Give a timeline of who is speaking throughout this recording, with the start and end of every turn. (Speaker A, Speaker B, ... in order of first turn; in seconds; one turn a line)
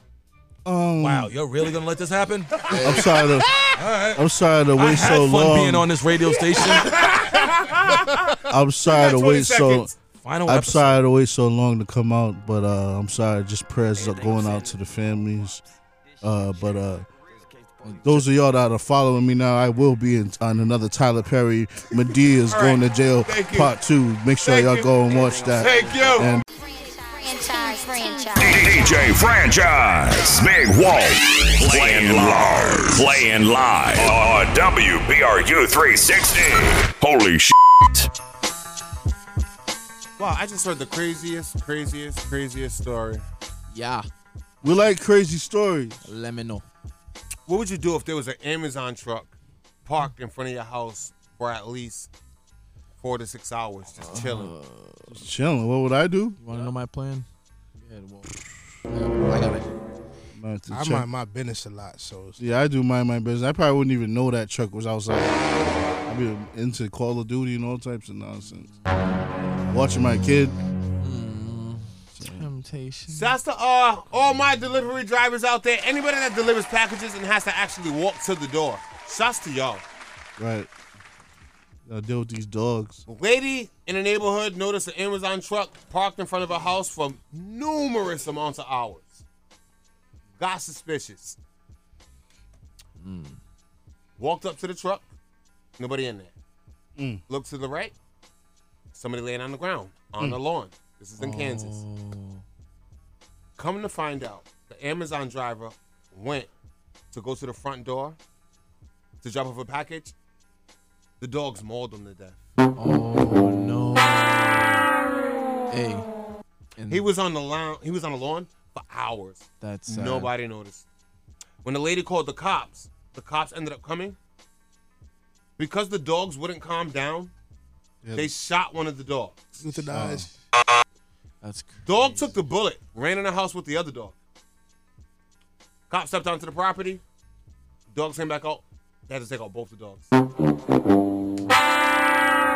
Speaker A: 0.6-1.3
Speaker B: 1.0-3.1
Speaker C: 2.5-3.7
Speaker A: 2.8-3.5
Speaker B: 3.8-4.2
Speaker A: 4.1-5.9
Speaker B: 4.7-7.0
Speaker C: 6.5-9.9
Speaker A: 8.5-9.9
Speaker B: 10.2-11.0
Speaker A: 10.4-15.6
Speaker B: 14.1-14.7
Speaker A: 16.2-17.1
Speaker D: 17.8-18.2
Speaker A: 18.0-26.4
Speaker C: 22.5-23.8
Speaker C: 24.4-24.9
Speaker C: 25.6-26.3
Speaker E: 26.6-29.0
Speaker F: 28.4-38.1
Speaker C: 31.7-33.0
Speaker C: 40.2-43.2
Speaker D: 43.7-44.1
Speaker A: 44.6-46.0
Speaker D: 46.0-46.6
Speaker C: 47.5-49.3
Speaker C: 49.8-52.1
Speaker C: 53.0-54.5
Speaker D: 54.0-55.2
Speaker A: 55.1-56.4
Speaker D: 56.4-58.3
Speaker D: 58.9-59.7
Speaker A: 60.3-61.1
Speaker G: 60.7-62.4
Speaker A: 62.4-68.7
Speaker D: 68.4-69.0
Speaker A: 69.7-70.6
Speaker D: 71.0-73.3
Speaker A: 72.2-72.4
Speaker C: 73.1-79.8
Speaker A: 80.4-80.7
Speaker A: 81.8-83.0
Speaker C: 83.1-89.2
Speaker C: 90.4-91.4
Speaker D: 93.0-93.4
Speaker C: 94.2-95.1
Speaker C: 95.8-96.3
Speaker A: 97.0-97.2
Speaker C: 97.3-97.9
Speaker C: 98.9-101.8
Speaker D: 101.2-102.4
Speaker C: 103.6-106.5
Speaker C: 107.1-108.2
Speaker C: 109.2-110.1
Speaker C: 111.2-112.4
Speaker D: 112.8-114.9
Speaker D: 115.7-116.1
Speaker D: 116.8-117.1
Speaker C: 116.9-120.8
Speaker D: 119.6-120.3
Speaker C: 121.6-124.2
Speaker C: 125.6-127.3
Speaker A: 128.0-128.3
Speaker C: 128.1-129.6
Speaker G: 129.6-130.3
Speaker A: 129.9-130.3
Speaker D: 131.4-132.4
Speaker C: 131.8-134.1
Speaker C: 135.9-137.0
Speaker C: 137.9-140.1